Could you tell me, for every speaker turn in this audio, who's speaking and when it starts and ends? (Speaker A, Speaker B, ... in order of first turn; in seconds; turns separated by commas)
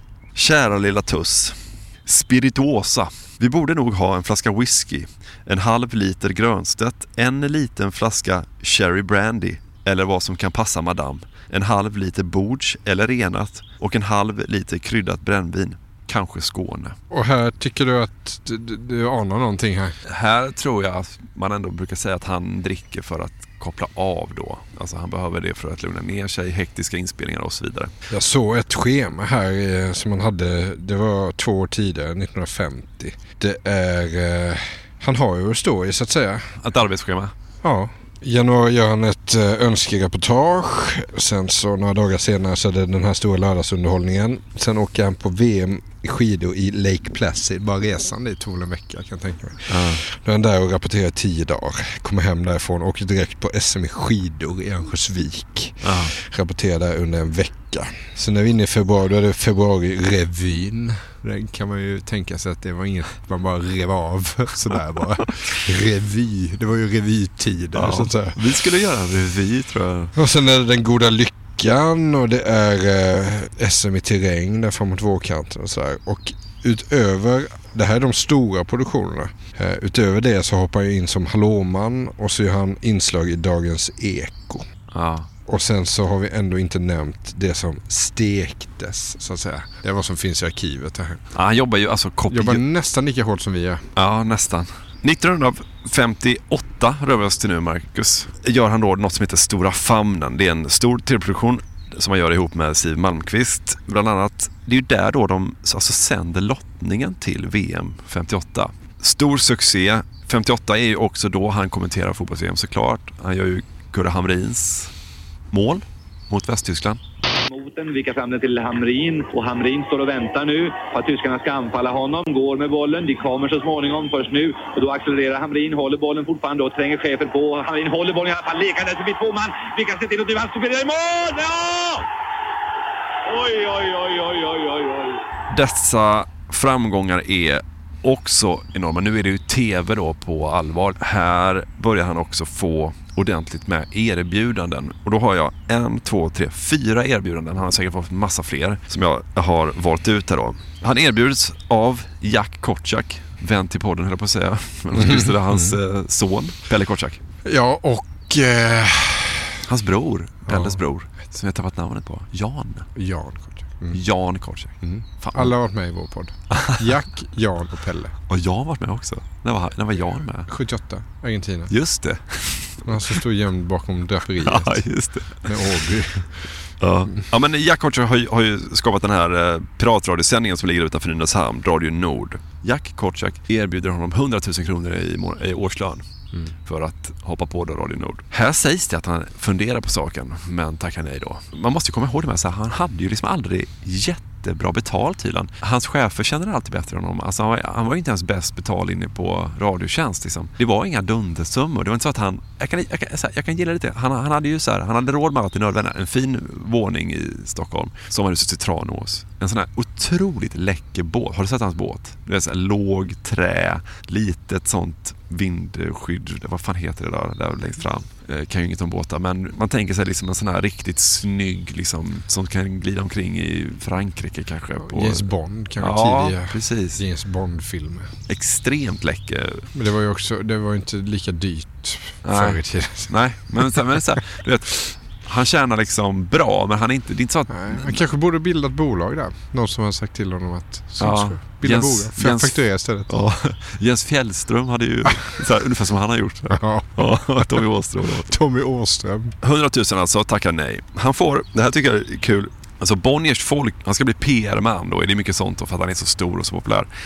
Speaker A: 0.3-17.0, Speaker B: 17.1-19.9, Speaker A: 20.1-27.9, Speaker B: 28.1-36.5, Speaker A: 36.6-37.3, Speaker B: 37.6-68.4, Speaker A: 49.7-50.0, Speaker A: 55.8-56.1, Speaker A: 67.7-70.1, Speaker B: 70.2-84.7, Speaker A: 84.9-85.3, Speaker B: 85.5-91.2, Speaker A: 91.3-92.6, Speaker B: 92.3-93.8, Speaker A: 94.0-114.9, Speaker A: 115.5-117.0, Speaker C: 117.5-132.1, Speaker C: 133.3-135.2, Speaker A: 135.5-157.2, Speaker B: 154.9-155.8, Speaker B: 157.4-159.6, Speaker A: 159.7-162.9, Speaker B: 160.5-160.8, Speaker B: 162.9-164.0, Speaker A: 163.9-165.6, Speaker B: 164.8-168.1, Speaker A: 166.5-166.9, Speaker A: 168.3-170.5, Speaker B: 170.5-171.7, Speaker A: 171.7-173.2, Speaker B: 172.9-174.8, Speaker A: 174.4-175.9, Speaker B: 175.4-176.4, Speaker A: 176.8-186.1, Speaker A: 186.7-225.3, Speaker B: 224.8-228.1, Speaker A: 225.8-227.0, Speaker A: 228.3-229.7, Speaker B: 229.7-234.0, Speaker A: 232.2-238.0, Speaker B: 237.5-243.2, Speaker A: 241.0-248.3, Speaker B: 246.5-247.7, Speaker B: 248.2-249.3, Speaker A: 249.4-256.9